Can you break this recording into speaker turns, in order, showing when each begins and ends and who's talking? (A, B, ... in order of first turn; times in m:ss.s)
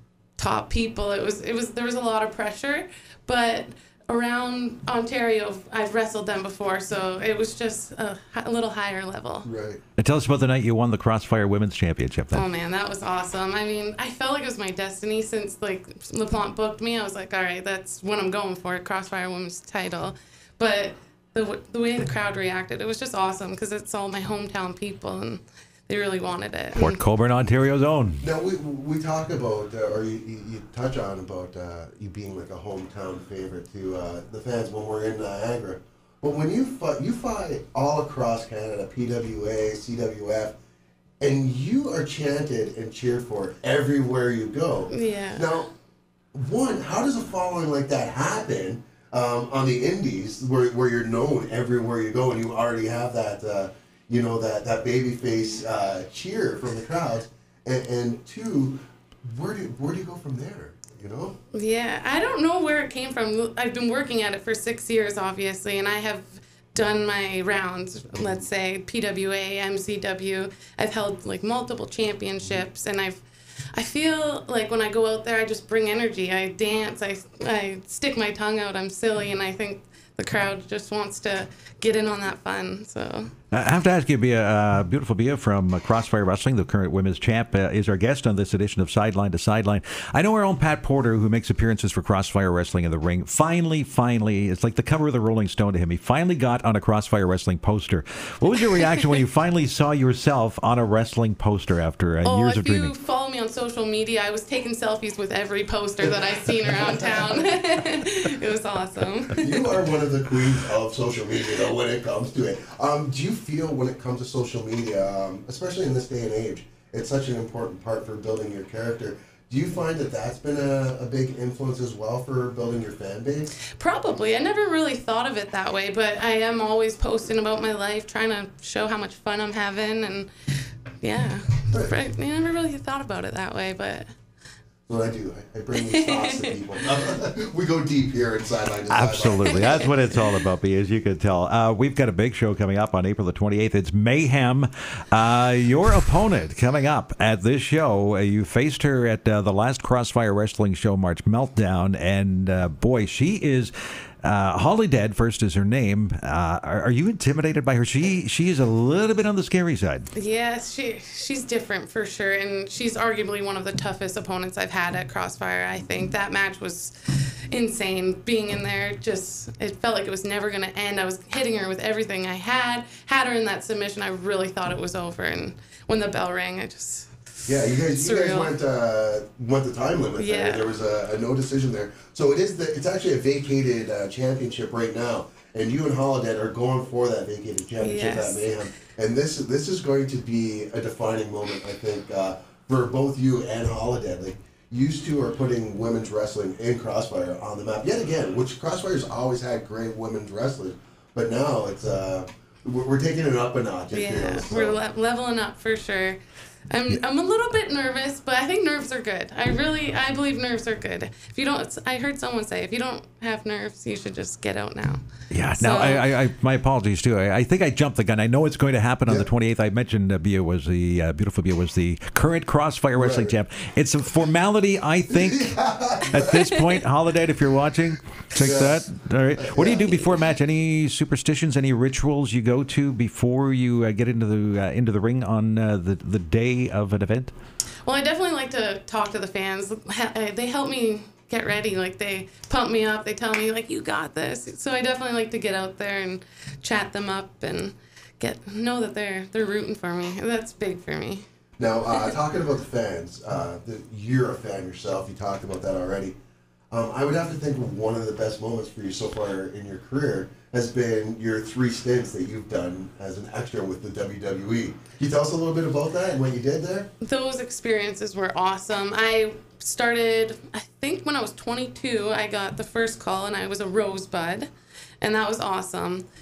0:00.4-0:09.5 A
0:09.4-0:09.8 B
0:10.0-0:12.4 C
0:12.3-0:27.0 A
0:26.8-0:28.2 C
0:28.2-0:40.6 B
0:41.2-0:45.7 B
0:44.9-0:45.5 A
0:46.4-1:01.4 B
1:01.5-1:13.2 A
1:13.7-1:23.3 A
1:23.5-1:42.9 C
1:42.2-1:49.7 A
1:46.0-1:47.4 B
1:49.4-2:03.5 B
2:03.7-2:10.3 A
2:11.0-2:14.1 A
2:14.9-2:19.8 B
2:15.8-2:16.6 A
2:18.9-2:40.1 C
2:19.5-2:20.2 A
2:40.1-2:57.2 A
2:57.5-3:24.8 B
2:57.9-2:58.6 A
3:00.2-3:00.7 A
3:07.8-3:08.5 A
3:23.9-3:26.2 A
3:26.7-3:35.0 A
3:35.3-3:57.3 C
3:35.6-3:36.1 A
3:43.0-3:43.4 B
3:45.1-3:46.4 B
3:48.4-3:48.8 B
3:49.4-3:50.0 B
3:57.8-4:11.2 A
4:11.6-4:16.2 B
4:16.7-4:26.9 B
4:27.0-4:36.0 A